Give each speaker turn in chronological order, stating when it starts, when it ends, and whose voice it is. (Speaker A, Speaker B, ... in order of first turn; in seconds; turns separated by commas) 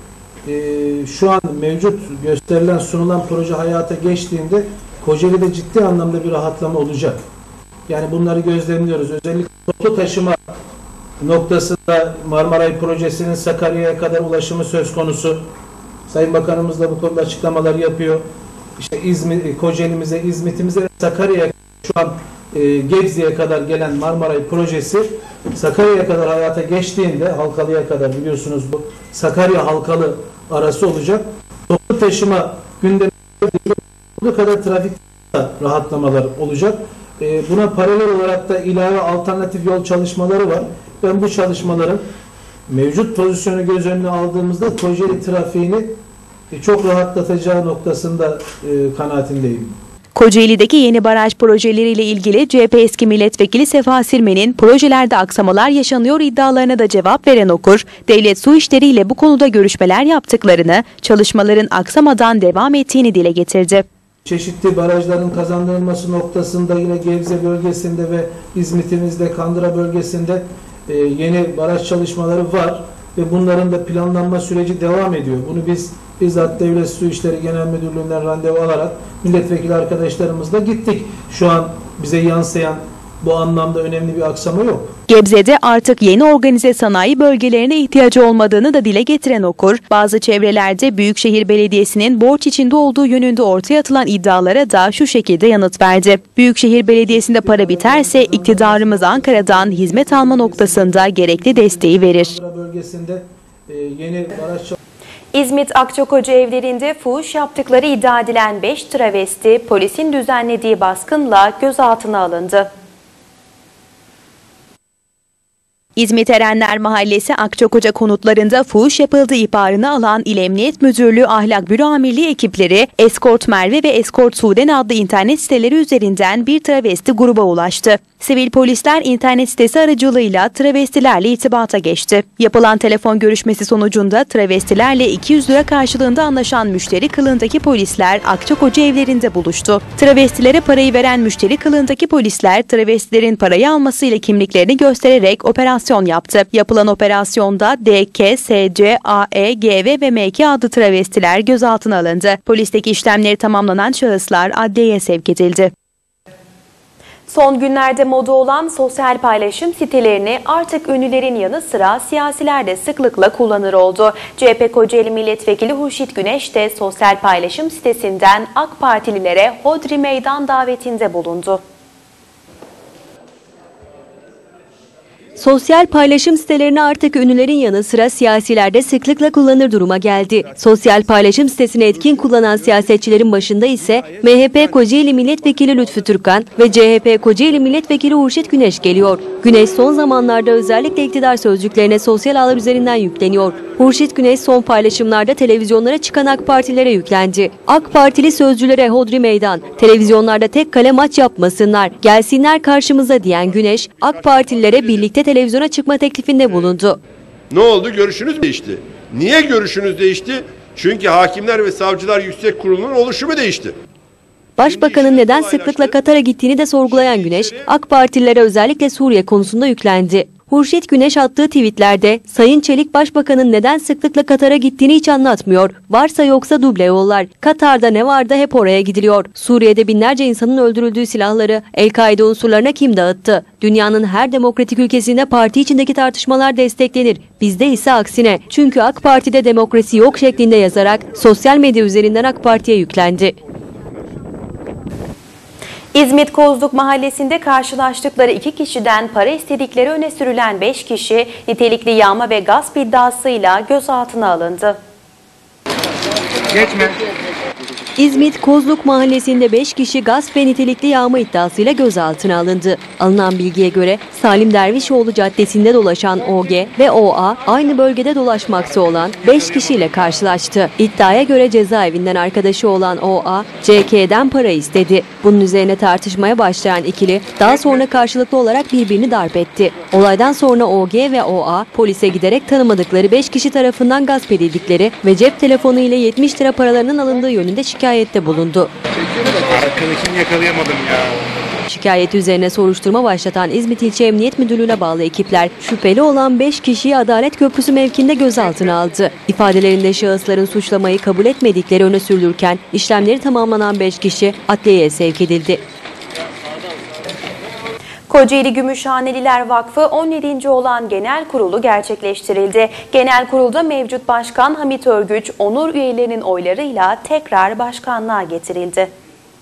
Speaker A: 0.4-7.2, Speaker A: 7.9-10.4, Speaker A: 11.2-15.4, Speaker A: 16.1-18.2, Speaker A: 18.8-42.0, Speaker A: 42.7-46.0, Speaker A: 46.5-49.8, Speaker B: 50.1-63.8, Speaker A: 64.2-85.0, Speaker B: 85.1-102.3, Speaker A: 97.0-104.8, Speaker C: 105.3-112.7, Speaker B: 116.0-155.7, Speaker C: 157.3-171.6, Speaker D: 175.4-207.0, Speaker E: 207.5-213.8, Speaker D: 214.6-243.3, Speaker E: 214.6-216.0, Speaker E: 216.9-217.7, Speaker C: 245.9-254.8, Speaker F: 256.5-257.0, Speaker D: 258.0-288.7, Speaker F: 289.2-291.3, Speaker D: 291.7-305.6, Speaker C: 308.1-318.9